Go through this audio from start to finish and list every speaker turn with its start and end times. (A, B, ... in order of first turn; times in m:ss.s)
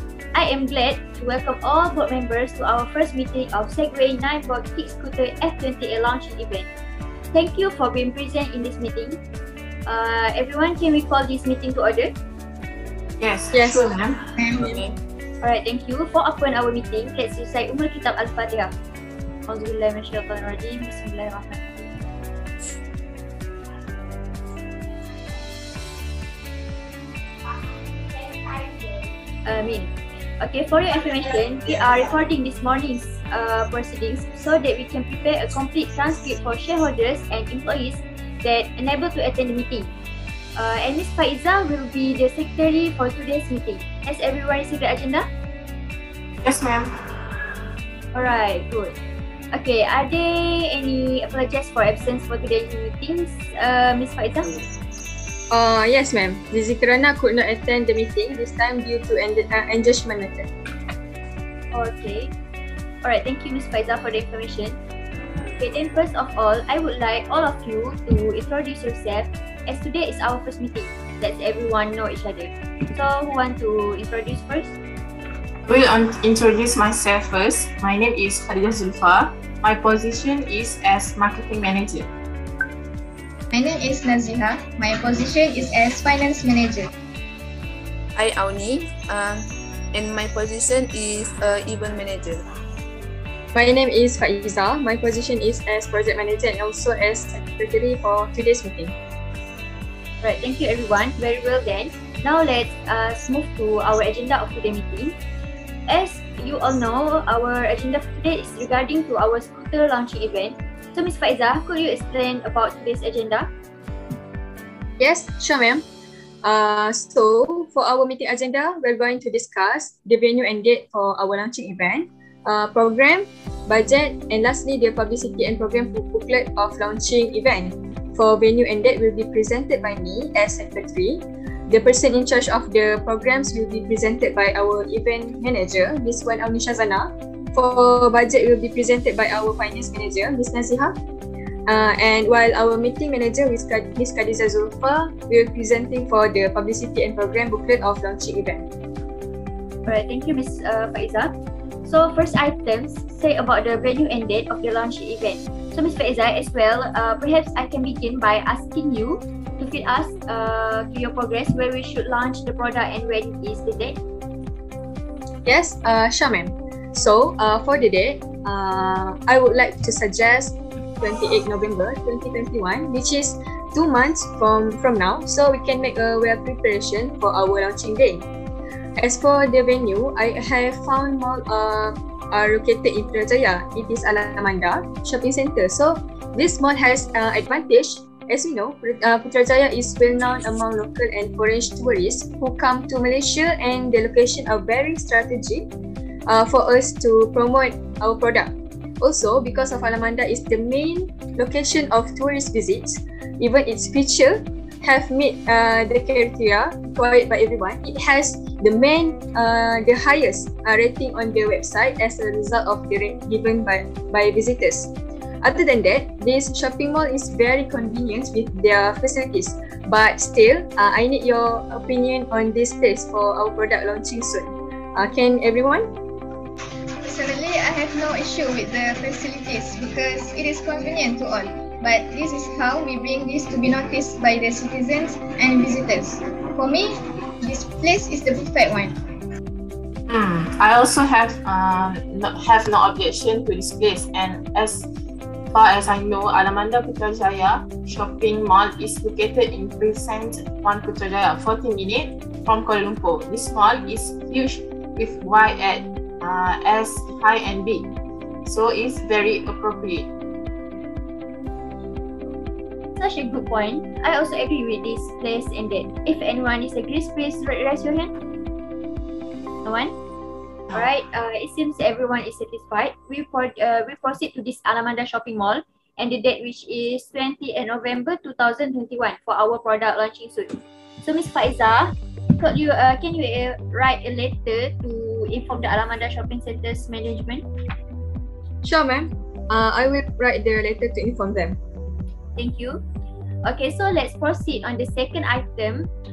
0:00.3-0:06.7 A
0:07.3-0:09.2 A
0:09.9-0:12.1 A
0:13.2-0:14.9 B
0:13.5-0:13.9 C
0:15.4-0:18.7 A
0:19.5-0:21.9 A
0:29.4-0:39.9 A
0:40.6-0:45.2 A
0:46.4-0:46.9 B
0:48.1-0:49.0 A
0:49.5-0:54.6 A
0:55.5-1:00.5 C
1:01.7-1:02.3 A
1:03.0-1:04.8 A
1:05.6-1:14.8 A
1:15.6-1:22.1 B
1:23.5-1:26.9 D
1:28.2-1:32.4 E
1:33.5-1:38.9 C
1:40.2-1:45.2 A
1:45.9-1:53.5 A
1:55.0-1:55.8 C
1:56.4-2:20.9 C
2:21.7-2:28.7 C
2:29.8-2:31.3 A
2:31.8-2:44.0 A
2:45.4-2:58.2 C
2:59.0-3:15.7 C
3:16.3-3:45.9 C
3:47.0-3:56.9 D
3:57.4-3:58.9 D
4:00.1-4:04.9 B
4:05.5-4:17.9 B
4:18.4-4:20.1 B
4:23.0-4:28.1 A
4:29.6-4:29.9 A
4:30.7-4:47.4 A
4:48.6-4:51.6 C
4:52.4-4:52.8 A
4:53.4-4:55.9 A